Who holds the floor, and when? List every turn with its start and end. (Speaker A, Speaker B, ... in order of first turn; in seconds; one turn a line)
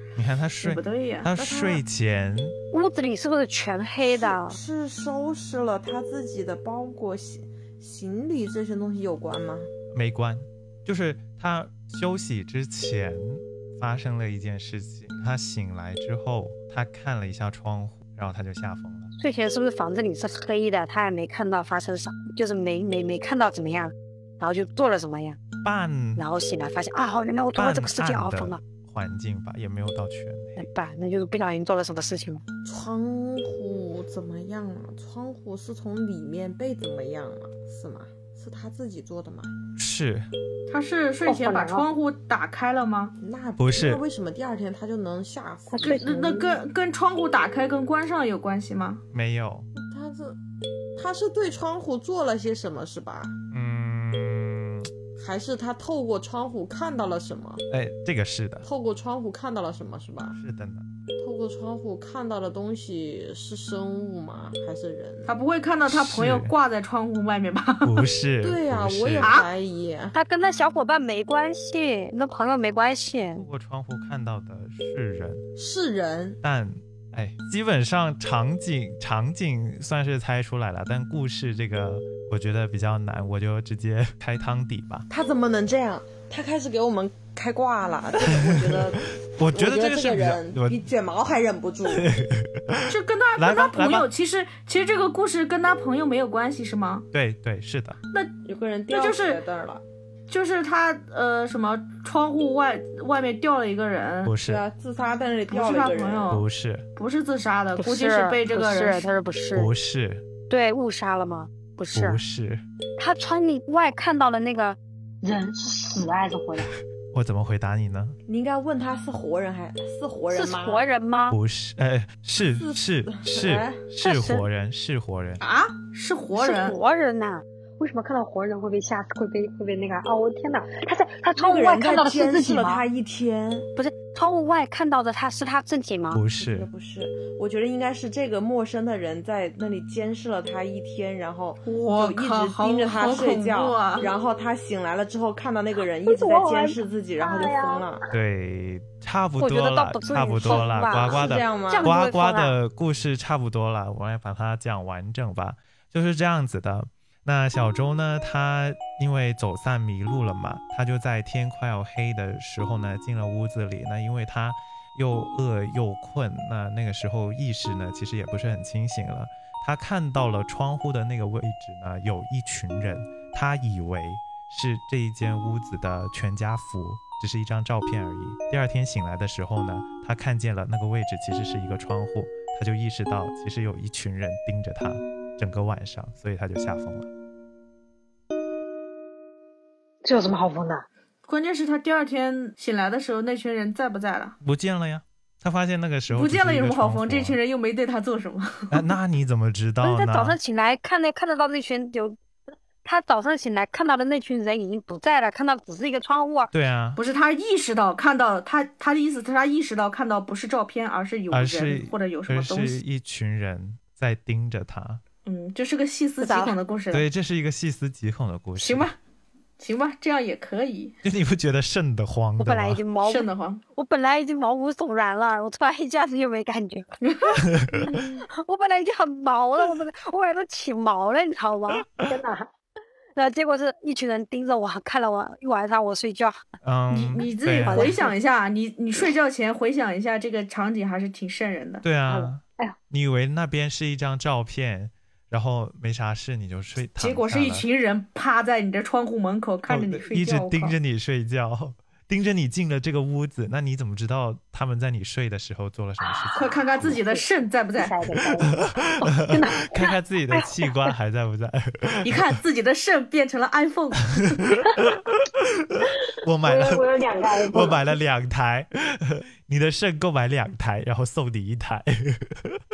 Speaker A: 0.2-2.5
Speaker B: 0.6-1.3
Speaker C: 1.4-1.8
Speaker D: 2.7-4.6
Speaker C: 4.1-9.7
Speaker A: 9.9-19.1
Speaker D: 19.2-25.4
Speaker A: 25.6-26.2
Speaker D: 26.2-28.6
Speaker A: 27.6-30.7
Speaker D: 30.6-32.4
Speaker C: 32.6-39.6
Speaker A: 39.8-40.3
Speaker B: 40.7-43.1
Speaker E: 41.2-41.9
Speaker C: 43.2-46.3
Speaker A: 43.6-44.0
Speaker E: 45.7-46.6
Speaker B: 45.8-49.0
Speaker A: 49.1-49.7
Speaker C: 49.8-50.4
Speaker C: 51.0-53.4
Speaker A: 53.5-54.9
Speaker C: 55.2-57.6
Speaker A: 57.7-58.7
Speaker C: 58.6-60.4
Speaker A: 60.4-60.9
Speaker C: 61.2-65.3
Speaker B: 65.3-68.0
Speaker A: 65.9-66.5
Speaker A: 67.8-69.4
Speaker C: 68.4-70.2
Speaker B: 69.2-69.5
Speaker D: 70.1-73.5
Speaker A: 73.3-75.4
Speaker C: 75.6-76.4
Speaker A: 76.4-85.0
Speaker C: 85.1-92.1
Speaker A: 88.2-90.8
Speaker A: 91.9-94.1
Speaker B: 92.9-97.1
Speaker A: 97.1-98.0
Speaker C: 98.5-99.8
Speaker B: 98.9-99.4
Speaker B: 100.3-104.4
Speaker A: 104.2-104.6
Speaker C: 104.5-106.4
Speaker B: 105.5-106.5
Speaker A: 106.3-106.9
Speaker B: 107.0-109.1
Speaker D: 107.8-109.7
Speaker A: 109.5-110.2
Speaker D: 110.5-112.2
Speaker A: 111.9-112.6
Speaker D: 113.0-114.8
Speaker E: 115.2-116.8
Speaker A: 117.1-118.2
Speaker C: 118.3-120.8
Speaker D: 120.3-121.4
Speaker A: 121.3-125.4
Speaker C: 122.5-123.8
Speaker D: 124.0-124.5
Speaker B: 125.4-126.8
Speaker D: 126.3-127.4
Speaker E: 127.8-132.8
Speaker C: 131.4-133.7
Speaker D: 133.8-136.2
Speaker A: 136.1-136.7
Speaker C: 136.4-148.0
Speaker B: 141.7-144.1
Speaker E: 146.1-148.0
Speaker A: 148.1-187.1
Speaker D: 149.4-152.6
Speaker C: 150.5-151.9
Speaker E: 190.1-190.8
Speaker B: 191.3-194.4
Speaker A: 194.4-197.4
Speaker B: 196.1-198.9
Speaker A: 198.7-200.4
Speaker D: 199.8-202.2
Speaker D: 202.8-206.5
Speaker A: 206.5-207.0
Speaker B: 207.0-212.8
Speaker A: 211.3-215.0
Speaker B: 215.2-217.1
Speaker D: 216.2-216.6
Speaker A: 216.9-218.9
Speaker B: 218.6-219.0
Speaker B: 219.6-220.9
Speaker A: 221.0-222.8
Speaker D: 222.4-226.9
Speaker B: 223.0-223.6
Speaker B: 227.0-227.4
Speaker A: 227.4-228.0
Speaker D: 228.4-231.8
Speaker E: 232.0-232.5
Speaker D: 233.2-236.4
Speaker A: 236.6-238.0
Speaker B: 236.9-241.8
Speaker D: 237.2-238.2
Speaker A: 241.8-247.7
Speaker E: 242.1-242.8
Speaker B: 247.0-250.8
Speaker A: 249.7-256.9
Speaker E: 256.0-260.7
Speaker B: 256.4-258.1
Speaker A: 258.4-262.3
Speaker B: 262.0-264.4
Speaker A: 264.1-272.6
Speaker E: 266.4-267.9